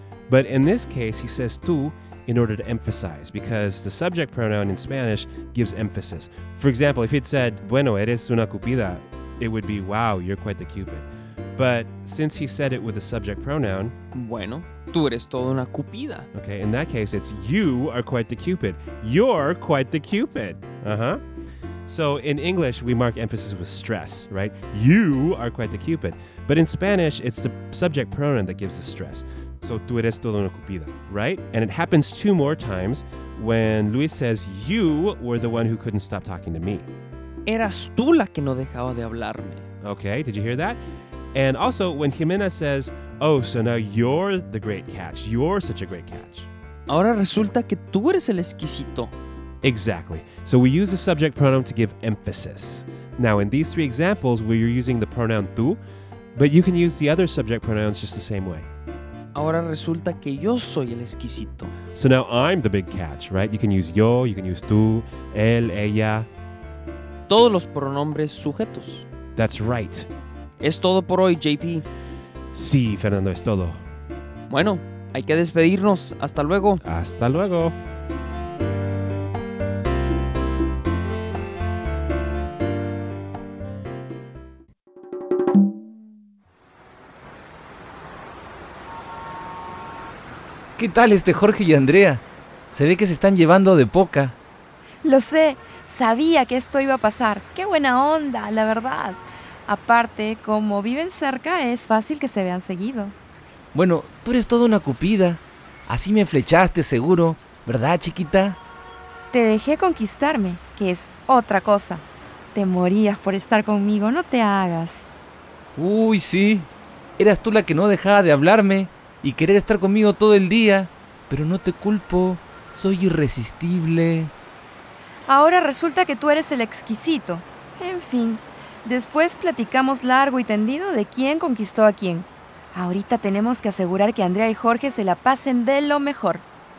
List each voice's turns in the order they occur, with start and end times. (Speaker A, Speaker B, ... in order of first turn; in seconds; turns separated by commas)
Speaker A: 0.3-13.9, Speaker B: 14.1-16.3, Speaker A: 16.3-21.2, Speaker A: 21.9-36.9, Speaker B: 37.5-39.6, Speaker A: 39.8-40.8, Speaker A: 41.3-46.5, Speaker B: 46.9-49.1, Speaker A: 49.6-55.8, Speaker A: 56.4-58.7, Speaker B: 59.4-61.7, Speaker A: 62.0-66.3, Speaker B: 67.3-69.0, Speaker A: 69.4-70.1, Speaker B: 70.6-71.8, Speaker A: 72.5-73.8, Speaker B: 74.5-76.8, Speaker A: 76.8-77.8, Speaker C: 90.8-94.4, Speaker D: 95.0-103.2, Speaker C: 103.7-108.6, Speaker D: 109.3-115.1, Speaker C: 115.8-124.3, Speaker D: 125.3-136.4